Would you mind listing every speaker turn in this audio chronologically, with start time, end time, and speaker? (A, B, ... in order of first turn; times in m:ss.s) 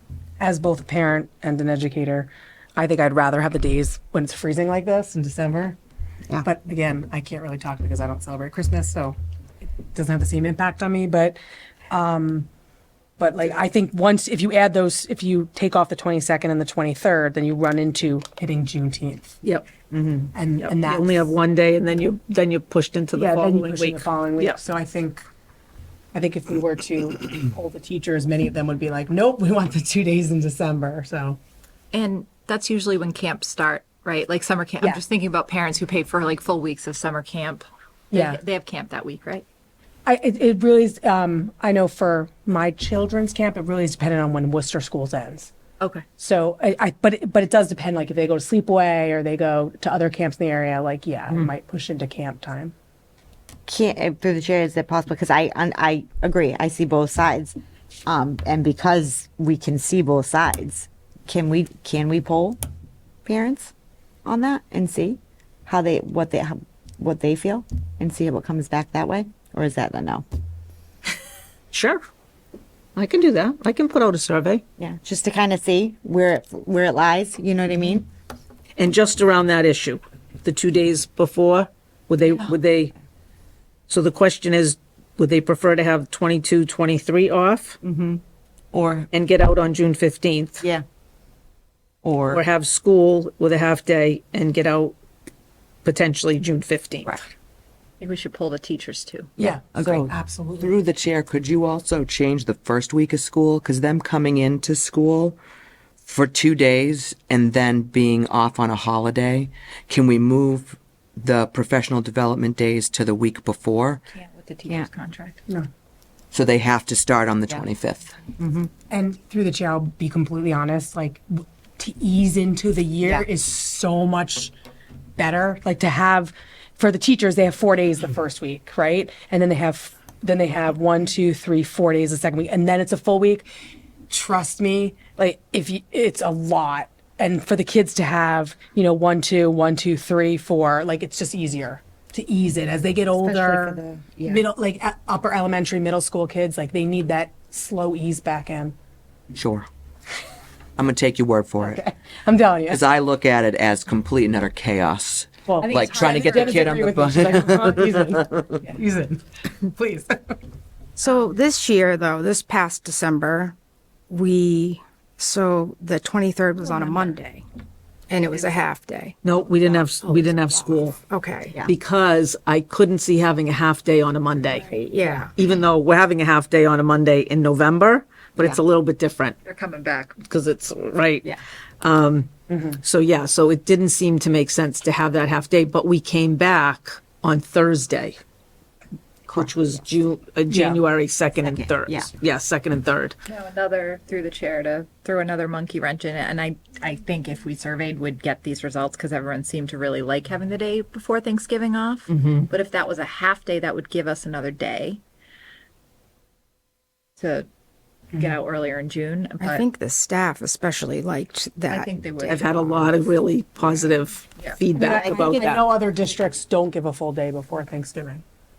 0:00.4-0:05.8 A
0:06.4-0:09.2 A
0:09.9-0:11.4 A
0:11.9-0:12.5 A
0:13.2-0:19.3 A
0:19.4-0:24.6 B
0:20.3-0:21.4 A
0:23.1-0:25.2 A
0:26.1-0:31.4 A
0:31.9-0:39.4 C
0:38.1-0:38.4 A
0:40.1-0:45.5 A
0:45.8-0:46.0 C
0:46.2-0:52.7 A
0:53.7-1:02.6 D
1:03.3-1:03.7 D
1:04.2-1:10.2 D
1:11.7-1:12.0 B
1:13.0-1:14.6 B
1:14.8-1:18.1 D
1:18.8-1:22.9 B
1:23.9-1:27.8 B
1:27.8-1:28.2 D
1:28.7-1:29.1 D
1:29.1-1:30.7 B
1:32.0-1:32.4 D
1:32.3-1:35.0 B
1:35.8-1:37.2 B
1:38.0-1:39.3 C
1:39.4-1:40.8 A
1:39.8-1:45.4 E
1:46.0-1:54.0 E
1:54.1-1:55.4 C
1:56.3-1:58.1 E
1:58.9-2:04.5 A
2:05.2-2:13.5 A
2:14.1-2:28.8 A
2:23.2-2:24.4 D
2:29.3-2:29.7 E
2:30.8-2:31.8 E
2:31.6-2:32.9 A
2:32.7-2:38.4 E
2:35.5-2:40.3 A
2:35.7-2:36.5 C
2:41.0-2:43.6 F
2:44.1-2:47.4 F
2:46.7-2:47.1 C
2:48.1-2:49.2 F
2:49.2-2:51.0 B
2:50.1-2:50.4 F
2:51.0-2:51.6 F
2:51.6-2:54.7 B
2:54.7-2:55.3 F
2:55.4-2:59.4 B
2:59.4-3:00.2 C
3:00.2-3:08.2 B
3:02.5-3:02.8 A
3:09.3-3:13.2 B
3:10.5-3:10.8 A
3:11.4-3:12.1 D
3:13.3-3:25.0 C
3:22.1-3:22.5 B
3:27.2-3:27.5 C
3:28.1-3:29.6 C
3:29.4-3:32.4 F
3:31.7-3:33.1 C
3:32.2-3:35.7 B
3:33.6-3:34.6 C
3:34.7-3:38.2 A
3:34.9-3:35.3 D